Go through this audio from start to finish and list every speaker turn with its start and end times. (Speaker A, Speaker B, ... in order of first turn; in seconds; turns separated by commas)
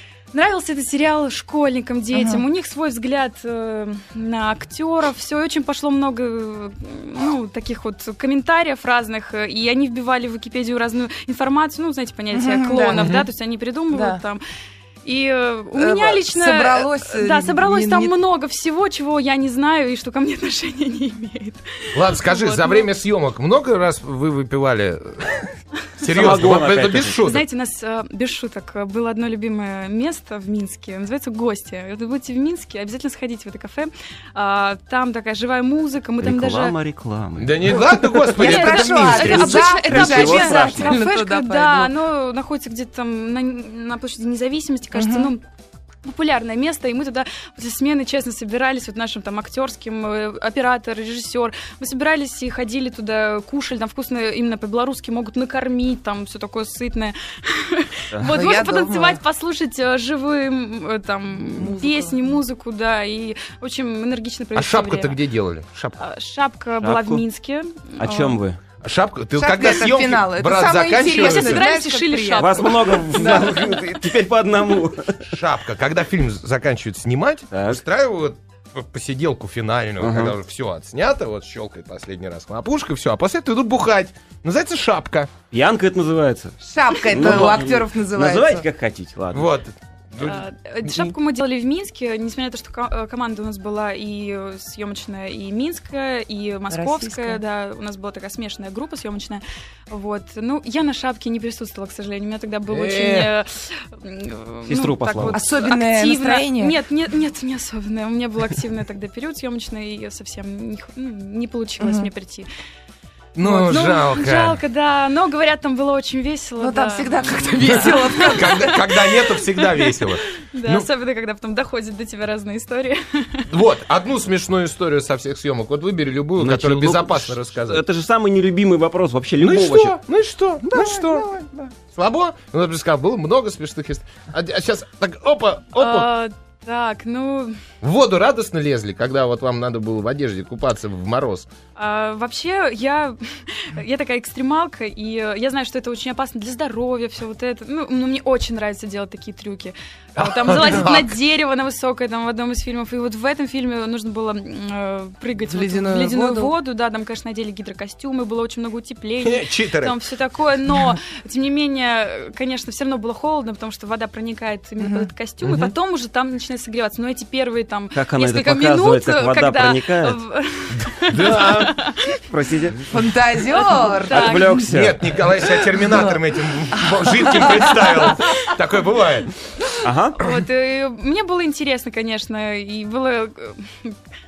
Speaker A: 0.3-14.4, Speaker B: 2.1-2.4, Speaker B: 12.3-13.1, Speaker C: 12.9-13.3, Speaker B: 13.9-14.2, Speaker A: 15.0-22.9, Speaker B: 15.7-18.1, Speaker C: 21.9-25.5, Speaker C: 26.0-27.4, Speaker D: 26.1-27.2, Speaker A: 27.2-36.7, Speaker D: 36.2-40.9, Speaker C: 37.4-39.5, Speaker B: 38.2-41.9, Speaker A: 38.4-45.4, Speaker B: 44.9-45.3, Speaker A: 46.0-65.2, Speaker B: 58.3-59.2, Speaker B: 61.5-62.4, Speaker C: 64.5-66.0, Speaker A: 66.0-68.4, Speaker D: 66.8-67.2, Speaker D: 68.0-68.6, Speaker C: 68.8-71.7, Speaker B: 69.3-73.8, Speaker A: 71.0-73.5, Speaker D: 72.4-75.3, Speaker C: 75.2-85.3, Speaker D: 77.5-77.8, Speaker D: 80.0-80.3, Speaker D: 85.5-86.6, Speaker B: 86.6-88.7, Speaker D: 87.1-89.5, Speaker C: 89.3-90.9, Speaker A: 90.2-112.5, Speaker B: 96.7-97.4, Speaker C: 102.7-103.3, Speaker D: 104.7-105.4, Speaker B: 105.3-106.8, Speaker B: 111.8-112.1, Speaker C: 113.3-114.6, Speaker A: 113.4-123.5, Speaker B: 116.6-119.0, Speaker C: 118.2-120.9, Speaker C: 123.5-127.8, Speaker D: 126.4-130.0, Speaker C: 129.4-136.1, Speaker B: 130.7-131.2, Speaker A: 135.8-137.6, Speaker C: 137.8-141.5, Speaker A: 141.8-172.2, Speaker C: 150.2-151.1, Speaker B: 155.5-156.5, Speaker C: 159.2-159.9, Speaker B: 164.8-165.1, Speaker C: 165.4-165.7, Speaker D: 167.9-170.2, Speaker C: 170.8-171.7, Speaker D: 172.2-172.9, Speaker B: 172.9-174.7, Speaker A: 173.5-174.6, Speaker D: 174.1-175.2, Speaker C: 174.7-179.3, Speaker B: 175.8-176.2, Speaker B: 176.7-178.0, Speaker D: 179.8-180.2, Speaker A: 180.2-184.0